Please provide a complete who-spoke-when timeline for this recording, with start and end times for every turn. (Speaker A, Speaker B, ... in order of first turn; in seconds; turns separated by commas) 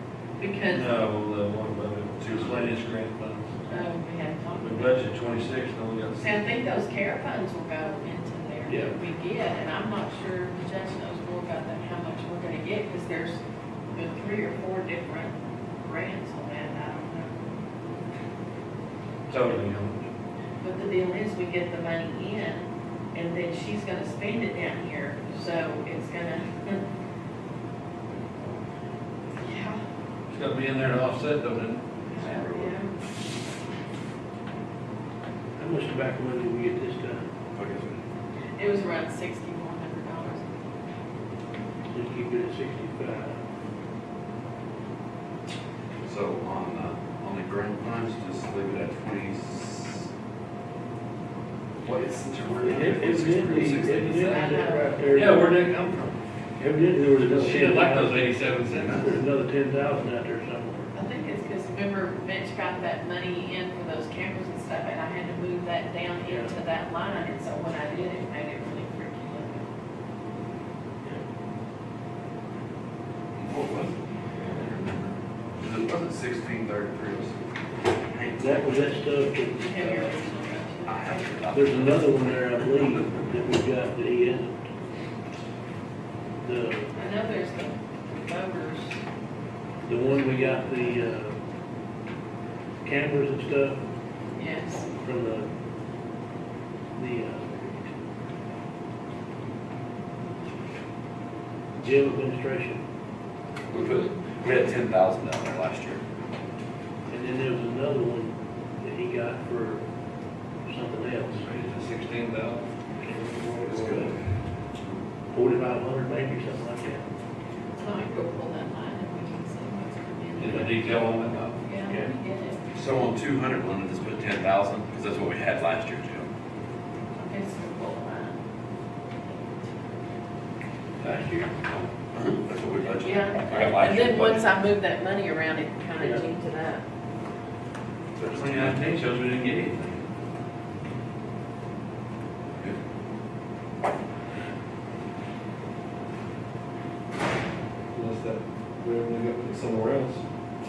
Speaker A: 0.4-0.9, Speaker B: 0.7-3.8, Speaker C: 2.2-2.8, Speaker A: 3.7-5.0, Speaker B: 4.6-6.4, Speaker A: 6.2-17.4, Speaker B: 19.3-20.1, Speaker A: 20.6-26.8, Speaker A: 29.4-29.8, Speaker B: 30.3-31.8, Speaker A: 32.1-32.9, Speaker C: 32.1-32.8, Speaker D: 35.6-37.2, Speaker C: 37.5-38.0, Speaker A: 38.6-40.5, Speaker D: 41.9-43.4, Speaker C: 46.0-50.1, Speaker C: 51.8-54.5, Speaker D: 52.6-55.5, Speaker A: 54.2-55.4, Speaker B: 55.1-56.1, Speaker D: 56.6-58.2, Speaker B: 57.2-59.1, Speaker C: 58.7-59.1, Speaker D: 58.9-60.9, Speaker A: 60.9-69.7, Speaker C: 73.3-77.4, Speaker C: 78.1-78.9, Speaker D: 78.4-80.1, Speaker A: 79.6-81.3, Speaker C: 80.9-82.5, Speaker D: 81.5-84.5, Speaker D: 86.4-86.9, Speaker A: 86.9-89.0, Speaker D: 89.8-91.3, Speaker A: 90.2-90.9, Speaker D: 92.8-93.8, Speaker A: 94.3-94.9, Speaker D: 95.0-95.5, Speaker D: 97.0-97.9, Speaker D: 101.8-102.8, Speaker C: 103.7-106.0, Speaker D: 107.1-109.8, Speaker D: 110.7-111.4, Speaker B: 111.3-112.7, Speaker D: 113.0-114.1, Speaker C: 113.7-114.1, Speaker D: 115.3-117.0, Speaker A: 117.8-122.6, Speaker B: 120.4-121.6, Speaker D: 120.4-120.7, Speaker D: 121.9-122.1, Speaker C: 122.7-126.3, Speaker A: 127.1-128.4, Speaker A: 129.3-130.0, Speaker B: 131.0-131.9, Speaker C: 132.1-134.5, Speaker A: 133.0-136.8, Speaker C: 138.2-138.8, Speaker B: 138.2-140.0, Speaker B: 147.9-150.2